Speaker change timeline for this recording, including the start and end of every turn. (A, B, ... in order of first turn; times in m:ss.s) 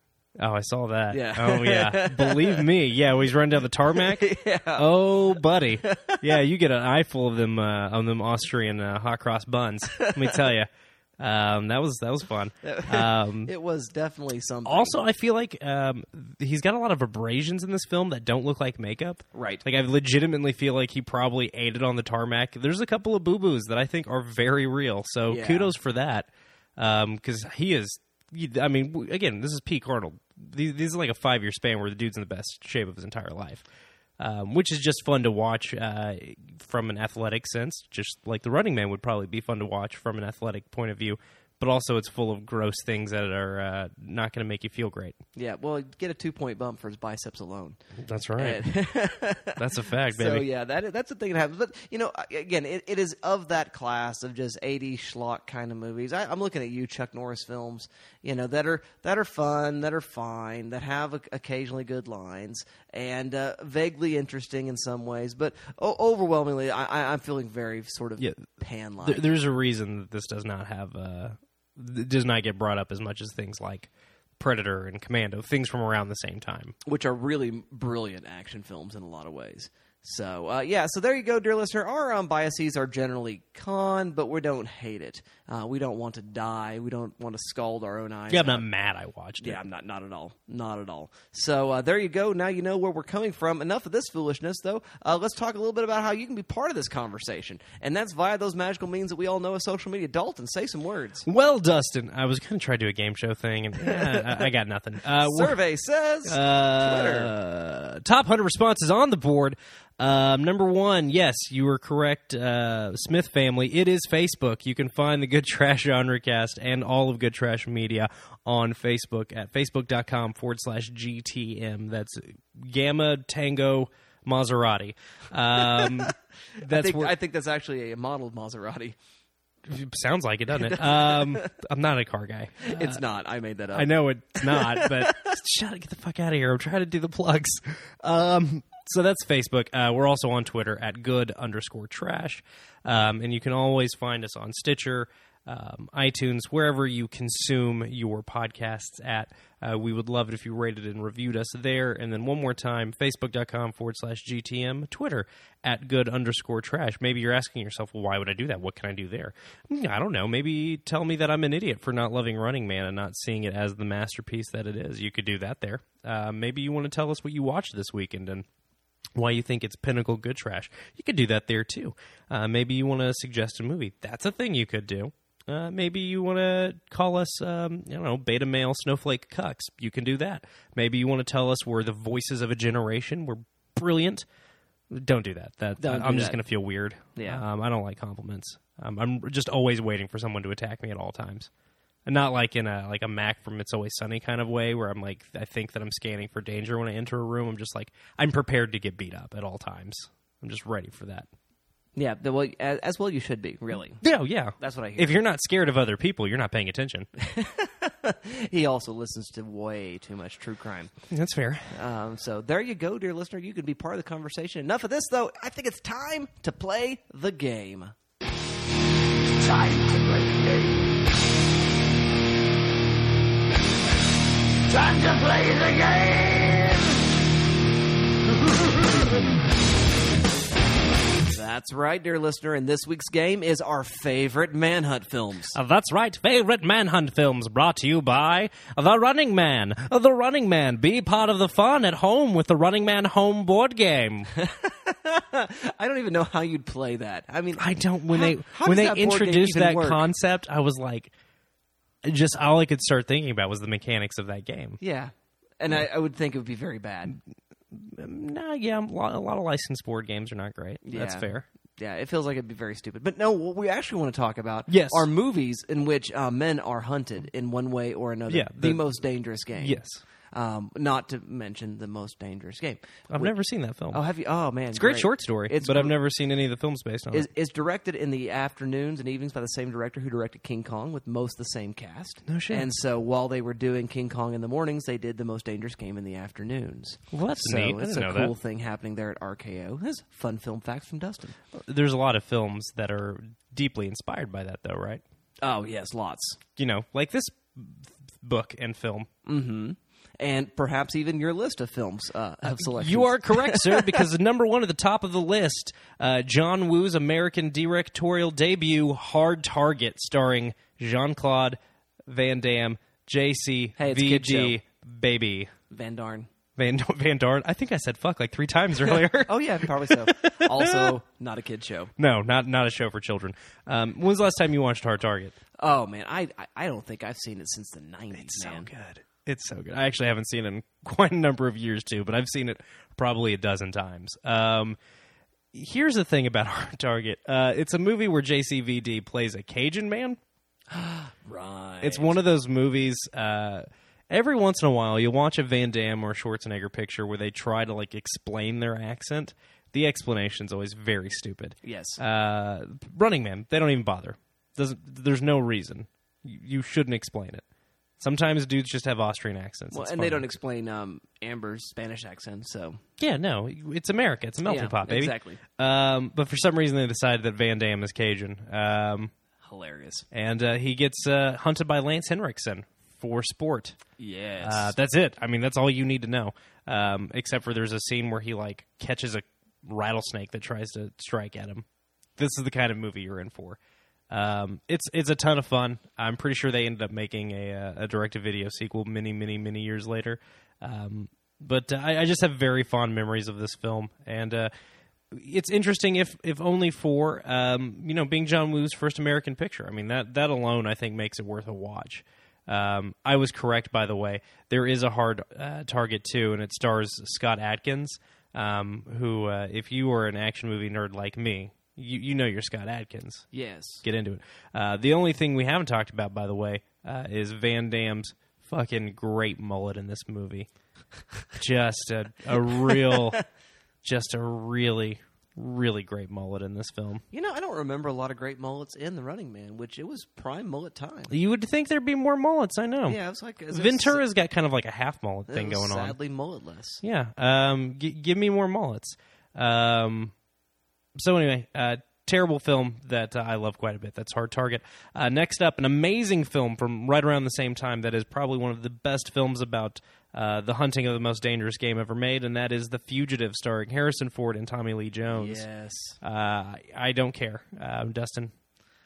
0:00.4-0:13.5 A
0:01.1-0:02.7 B
0:03.9-0:05.1 B
0:05.8-0:06.2 B
0:09.9-0:10.4 B
0:12.6-0:15.0 B
0:14.6-0:33.6 A
0:19.3-0:19.6 B
0:25.3-0:25.7 B
0:34.2-0:45.2 A
0:45.3-0:47.8 B
0:48.0-0:48.7 A
0:48.4-1:09.2 B
0:49.6-0:50.5 A
1:08.2-1:08.5 A
1:09.0-1:16.7 A
1:16.8-1:28.6 B
1:28.3-1:29.6 A
1:29.4-1:41.2 B
1:41.2-1:45.6 A
1:43.8-1:44.4 B
1:45.2-1:47.3 B
1:46.2-2:07.1 A
2:05.6-2:06.1 B
2:06.6-2:08.9 B
2:09.6-2:13.0 A
2:10.6-2:11.5 B
2:12.6-2:15.3 B
2:13.7-2:48.4 A
2:49.2-3:04.2 A
3:04.9-3:11.5 A
3:05.8-3:06.4 B
3:07.2-3:07.4 B
3:12.0-3:21.3 A
3:22.0-3:24.0 B
3:24.0-3:27.1 A
3:24.6-3:25.2 B
3:27.2-3:30.9 B
3:31.1-3:31.7 A
3:31.7-3:37.9 B
3:39.4-3:41.0 C
3:44.7-3:47.0 C
3:51.2-3:55.6 B
3:55.5-4:04.3 A
4:04.3-4:10.0 B
4:07.6-4:11.1 A
4:12.0-4:14.8 A
4:14.8-4:17.2 B
4:17.7-4:21.5 A
4:20.8-4:29.8 B
4:24.7-4:25.1 A
4:28.3-4:28.8 A
4:29.6-4:30.0 A
4:30.3-4:33.3 B
4:33.1-4:34.0 A
4:33.9-4:35.9 B
4:34.7-4:37.3 A
4:37.1-4:51.4 B
4:42.2-4:42.7 A
4:47.1-4:48.3 A
4:51.5-4:55.0 A
4:55.4-4:56.4 B
4:56.6-4:59.1 A
4:59.2-5:04.0 B
5:02.5-5:15.5 A
5:13.8-5:14.6 B
5:15.7-5:16.3 B
5:16.6-5:21.0 A
5:18.9-5:21.9 B
5:22.0-5:25.3 A
5:25.6-5:28.7 B
5:28.1-5:34.8 A
5:35.5-5:40.2 A
5:40.7-5:42.2 B
5:41.8-5:57.4 A
5:51.6-5:52.0 B
5:58.0-6:00.2 A
5:59.7-6:02.8 B
6:03.0-6:09.1 A
6:04.4-6:05.4 B
6:09.4-6:10.1 B
6:10.1-6:13.8 A
6:14.0-6:14.7 B
6:14.4-6:21.6 A
6:22.2-6:23.6 A
6:24.1-6:34.5 A
6:35.1-6:53.3 A
6:53.3-6:53.8 B
6:53.8-7:00.5 A
7:01.3-7:03.2 A
7:02.6-7:03.2 B
7:03.8-7:07.0 A
7:07.1-7:11.1 B
7:11.1-7:13.0 A
7:12.8-7:14.0 B
7:13.5-7:16.0 A
7:15.3-7:16.8 B
7:16.8-7:20.1 A
7:21.0-7:35.4 A
7:35.1-7:36.0 B
7:36.0-7:38.3 A